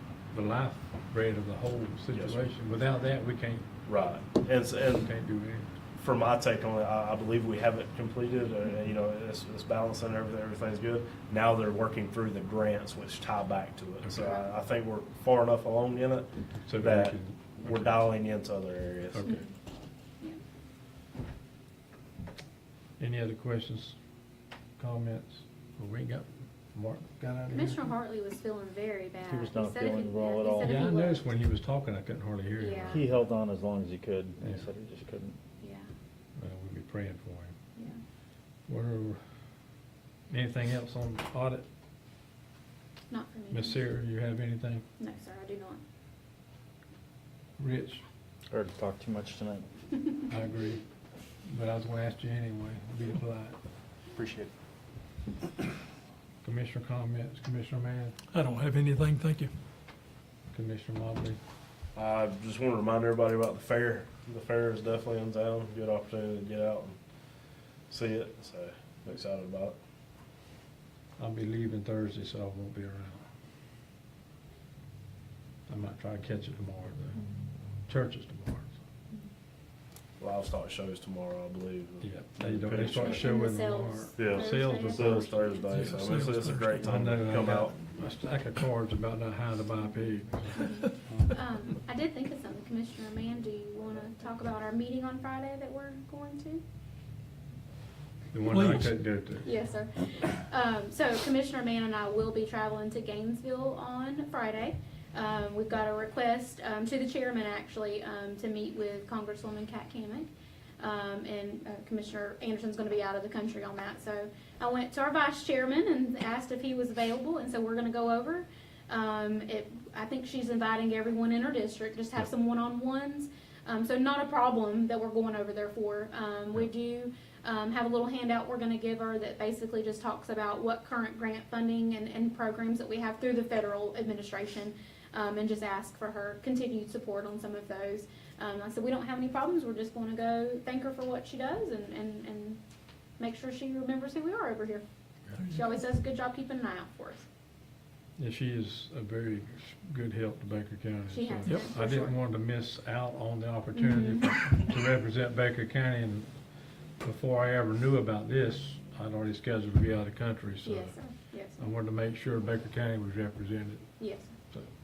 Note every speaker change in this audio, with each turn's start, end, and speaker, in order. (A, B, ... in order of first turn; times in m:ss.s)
0:00.3-0:03.7 A
0:02.1-0:02.4 B
0:03.9-0:05.1 B
0:05.0-0:05.7 A
0:06.0-0:19.4 B
0:14.2-0:14.5 C
0:16.6-0:18.1 A
0:19.1-0:19.5 A
0:19.2-0:19.5 C
0:23.0-0:24.0 A
0:24.8-0:27.8 A
0:27.5-0:31.3 C
0:29.3-0:30.9 D
0:30.6-0:33.0 A
0:32.6-0:33.0 C
0:32.9-0:35.4 D
0:34.4-0:34.7 A
0:35.6-0:35.9 C
0:36.4-0:37.5 A
0:38.7-0:39.2 A
0:40.3-0:41.7 A
0:43.1-0:43.8 C
0:43.5-0:44.9 A
0:45.0-0:45.8 C
0:47.6-0:48.0 A
0:48.5-0:49.7 D
0:50.3-0:50.8 A
0:51.4-0:53.6 A
0:54.2-0:54.5 B
0:56.4-0:58.2 A
0:58.3-0:59.4 E
1:00.5-1:01.4 A
1:02.0-1:07.0 B
1:07.9-1:09.8 B
1:11.2-1:13.2 A
1:15.7-1:17.2 A
1:17.8-1:18.7 A
1:20.2-1:23.3 B
1:22.0-1:25.2 A
1:22.7-1:25.7 C
1:24.2-1:27.8 B
1:25.7-1:26.9 E
1:26.8-1:31.3 A
1:29.8-1:36.6 C
1:38.3-1:39.5 A
1:38.5-1:38.9 E
1:39.4-1:50.3 C
1:50.8-2:22.6 C
2:23.2-2:24.8 C
2:25.5-2:27.3 C
2:28.2-2:36.3 A
2:31.1-2:32.2 C
2:31.5-2:31.7 E
2:33.7-2:34.6 C
2:37.0-2:44.7 A
2:40.6-2:41.7 C
2:44.0-2:44.3 C